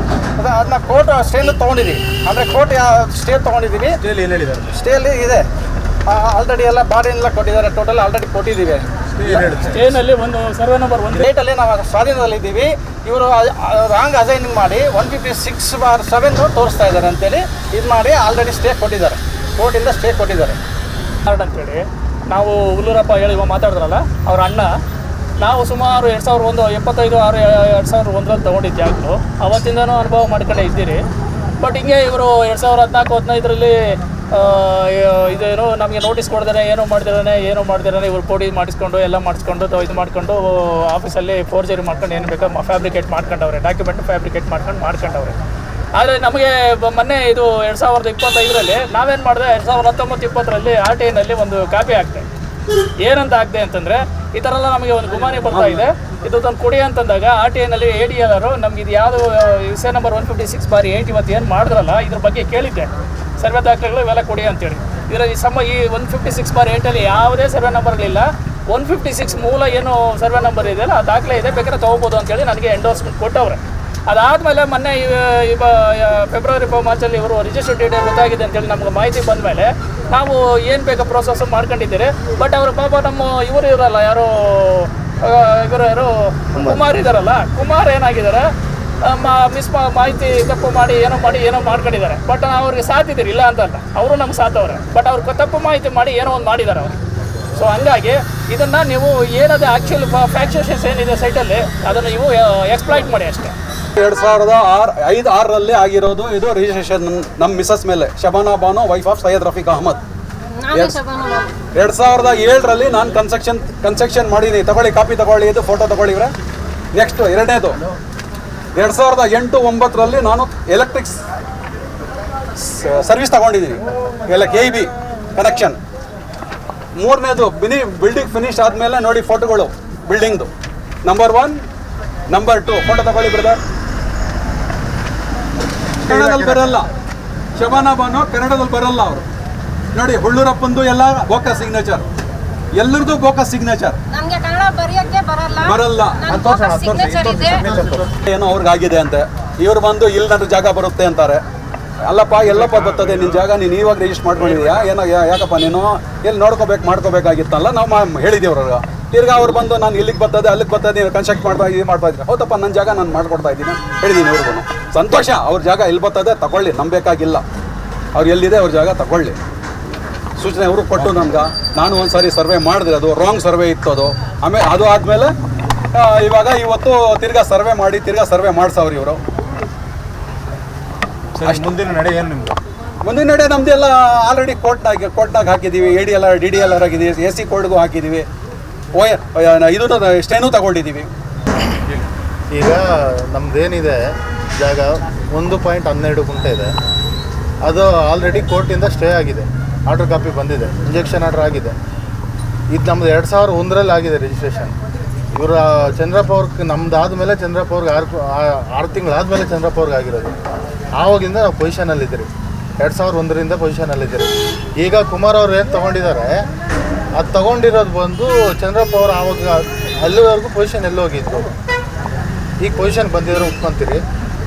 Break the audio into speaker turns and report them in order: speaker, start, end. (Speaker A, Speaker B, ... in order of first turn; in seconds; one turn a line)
Speaker A: 0.4-4.0
Speaker B: 4.0-4.7
Speaker A: 4.7-5.5
Speaker A: 6.1-8.8
Speaker B: 9.2-9.9
Speaker C: 9.7-11.3
Speaker A: 11.2-20.6
Speaker C: 21.2-24.7
Speaker C: 25.4-31.0
Speaker C: 31.6-45.4
Speaker C: 46.0-52.2
Speaker C: 53.0-88.5
Speaker C: 89.0-97.0
Speaker C: 97.5-103.5
Speaker D: 104.0-110.0
Speaker E: 110.5-111.5
Speaker D: 110.7-111.0
Speaker D: 111.7-116.3
Speaker D: 116.9-117.8
Speaker D: 118.7-121.2
Speaker D: 122.6-125.8
Speaker D: 127.0-130.5
Speaker D: 131.0-131.6
Speaker D: 132.3-133.6
Speaker D: 136.0-136.9
Speaker B: 136.1-136.7
Speaker D: 137.6-139.2
Speaker D: 139.9-142.0
Speaker D: 142.7-144.0
Speaker E: 144.1-147.7
Speaker D: 145.6-147.4
Speaker F: 146.3-146.6
Speaker D: 148.2-151.4
Speaker D: 152.1-167.4
Speaker D: 168.1-169.4
Speaker D: 170.4-175.3
Speaker D: 175.9-179.2
Speaker B: 181.4-182.5
Speaker D: 181.4-181.7
Speaker D: 183.0-188.2
Speaker D: 188.9-191.1
Speaker F: 192.5-194.0
Speaker F: 194.6-196.7
Speaker F: 197.7-201.7
Speaker F: 202.7-204.7
Speaker F: 205.3-210.3
Speaker F: 211.0-212.3
Speaker F: 212.8-216.3
Speaker F: 217.2-221.5
Speaker F: 222.6-224.0